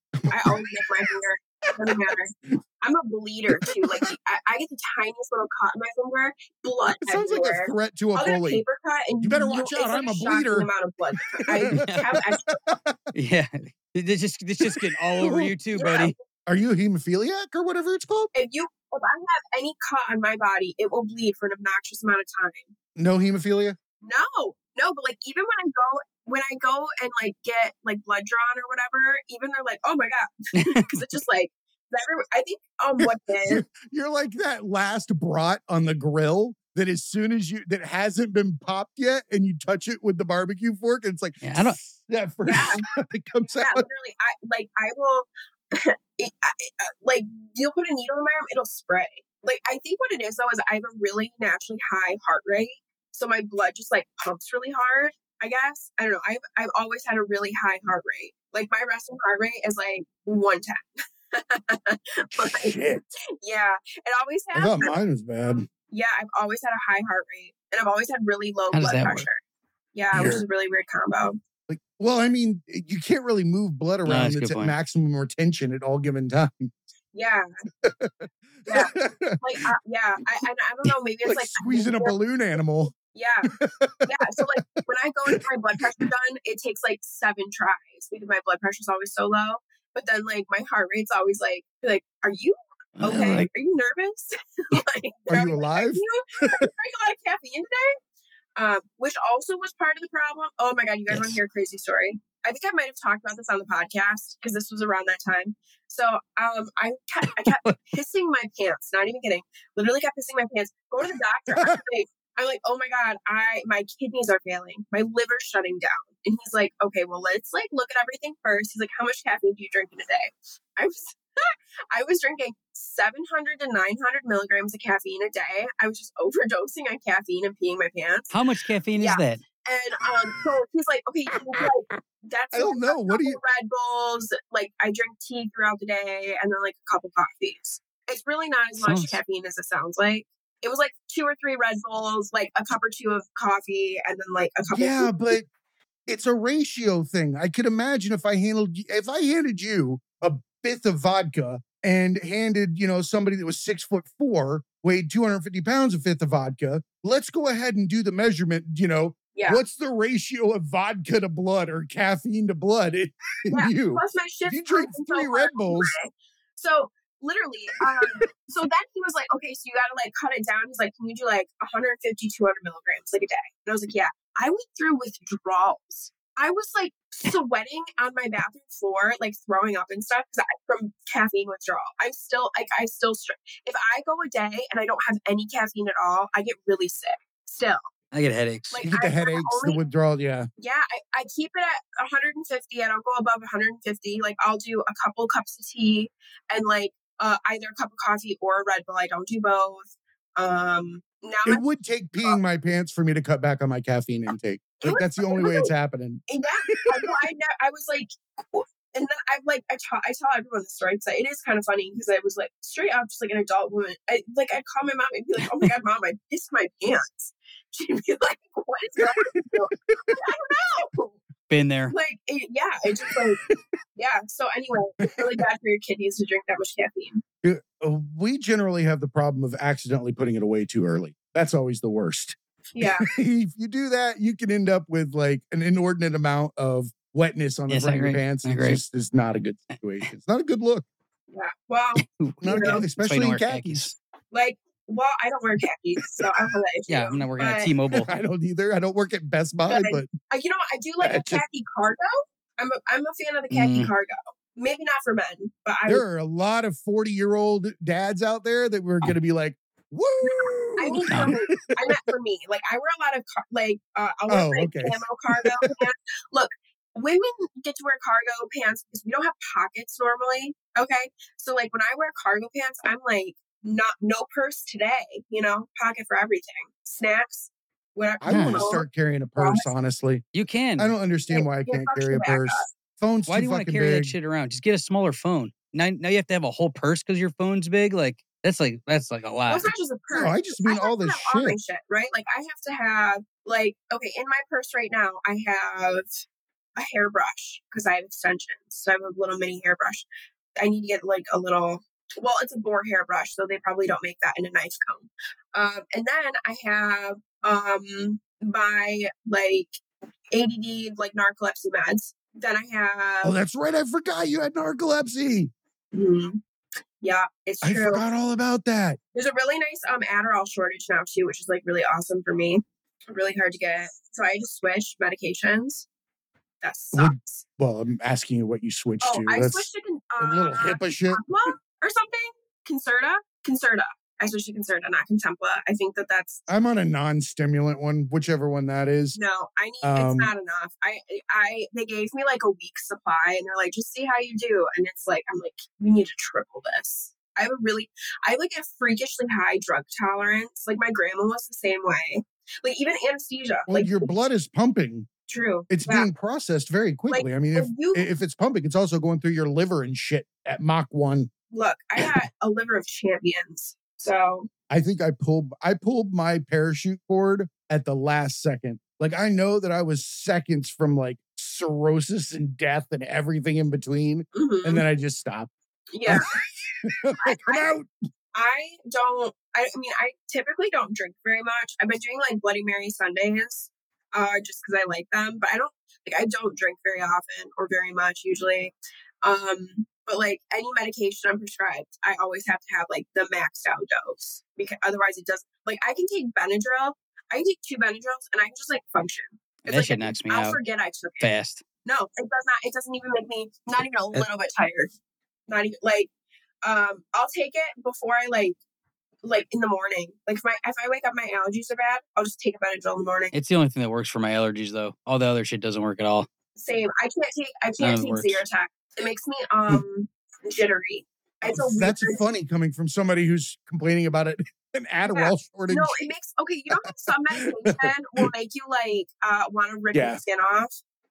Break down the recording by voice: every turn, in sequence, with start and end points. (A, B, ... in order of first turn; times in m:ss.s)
0:00.2-0:00.7 A
0:00.3-0:12.6 B
0:01.9-0:02.1 A
0:07.0-0:08.6 A
0:09.2-0:10.7 A
0:11.4-0:13.0 A
0:11.7-0:12.1 C
0:13.1-0:16.1 C
0:14.6-0:15.5 A
0:15.8-0:16.2 B
0:16.4-0:18.3 A
0:18.3-0:22.7 B
0:23.0-0:23.8 A
0:24.0-0:33.6 B
0:30.6-0:31.0 C
0:33.0-0:43.8 A
0:41.4-0:41.8 C
0:42.5-0:42.9 B
0:43.5-1:02.7 B
1:02.4-1:03.0 A
1:03.4-1:05.0 B
1:04.6-1:05.7 A
1:05.9-1:09.4 B
1:08.7-1:09.3 C
1:09.9-1:11.4 B
1:10.1-1:10.4 A
1:11.7-1:16.7 A
1:14.0-1:14.7 C
1:17.1-1:17.5 B
1:17.8-1:19.4 A
1:18.7-1:22.2 B
1:21.2-1:23.0 A
1:23.1-1:23.5 B
1:23.5-1:24.4 A
1:24.0-1:38.0 B
1:33.0-1:33.5 C
1:35.3-1:36.7 A
1:38.6-2:08.4 B
1:41.1-1:41.4 C
2:08.3-2:09.4 C
2:09.0-2:25.2 B
2:12.5-2:13.4 A
2:18.8-2:19.2 C
2:24.7-2:25.4 A
2:26.1-2:45.9 A
2:39.3-2:39.6 B
2:43.5-3:07.8 B
3:08.1-3:08.8 C
3:08.7-3:09.8 B
3:08.8-3:10.5 A
3:10.6-3:21.6 B
3:21.4-3:27.1 A
3:24.8-3:25.7 B
3:26.3-3:41.2 B
3:39.0-3:40.2 A
3:41.5-3:41.9 C
3:41.9-3:43.4 B
3:43.0-3:43.6 A
3:44.0-3:47.2 B
3:45.0-3:45.4 A
3:47.4-4:00.9 A
3:52.7-3:53.1 B
3:57.7-3:58.8 C
3:59.7-4:00.1 C
4:01.3-4:02.8 B
4:02.0-4:04.0 C
4:02.4-4:03.9 A
4:04.3-4:07.7 B
4:06.9-4:08.1 C
4:07.9-4:10.1 A
4:09.7-4:16.0 B
4:11.0-4:11.4 A
4:13.5-4:13.9 C
4:15.9-4:21.9 A
4:20.2-4:38.8 B
4:24.3-4:25.9 A
4:38.2-4:40.2 A
4:38.3-4:38.8 C
4:39.4-4:39.7 B
4:40.3-4:40.9 C
4:40.8-4:44.1 A
4:41.3-4:42.7 B
4:43.3-4:49.7 C
4:49.5-4:56.1 B
4:50.1-4:51.6 A
4:56.8-5:00.0 B
5:00.6-5:09.8 B
5:10.3-5:13.3 B
5:13.2-5:15.5 A
5:15.9-5:16.4 B
5:17.0-5:18.0 B
5:17.6-5:19.0 A
5:19.1-5:25.9 B
5:26.6-5:27.4 B
5:26.9-5:31.2 A
5:29.0-5:36.5 B
5:36.5-5:39.2 A
5:39.1-5:54.1 B
5:39.8-5:40.3 A
5:53.7-5:55.1 A
5:55.3-5:56.1 B
5:55.7-6:01.3 A
5:57.1-5:58.1 B
6:01.5-6:04.5 B
6:04.7-6:15.5 A
6:14.3-6:14.8 B
6:15.9-6:16.3 B
6:16.8-6:17.9 A
6:17.2-6:17.7 B
6:18.3-6:44.9 B
6:39.6-6:40.6 C
6:41.2-6:41.6 C
6:45.5-6:46.1 B
6:46.6-6:48.6 B
6:49.2-6:53.3 B
6:53.3-6:56.3 C
6:56.6-7:02.2 B
6:57.8-6:58.4 C
7:01.5-7:06.1 A
7:05.1-7:10.7 B
7:07.1-7:08.3 A
7:09.9-7:10.2 A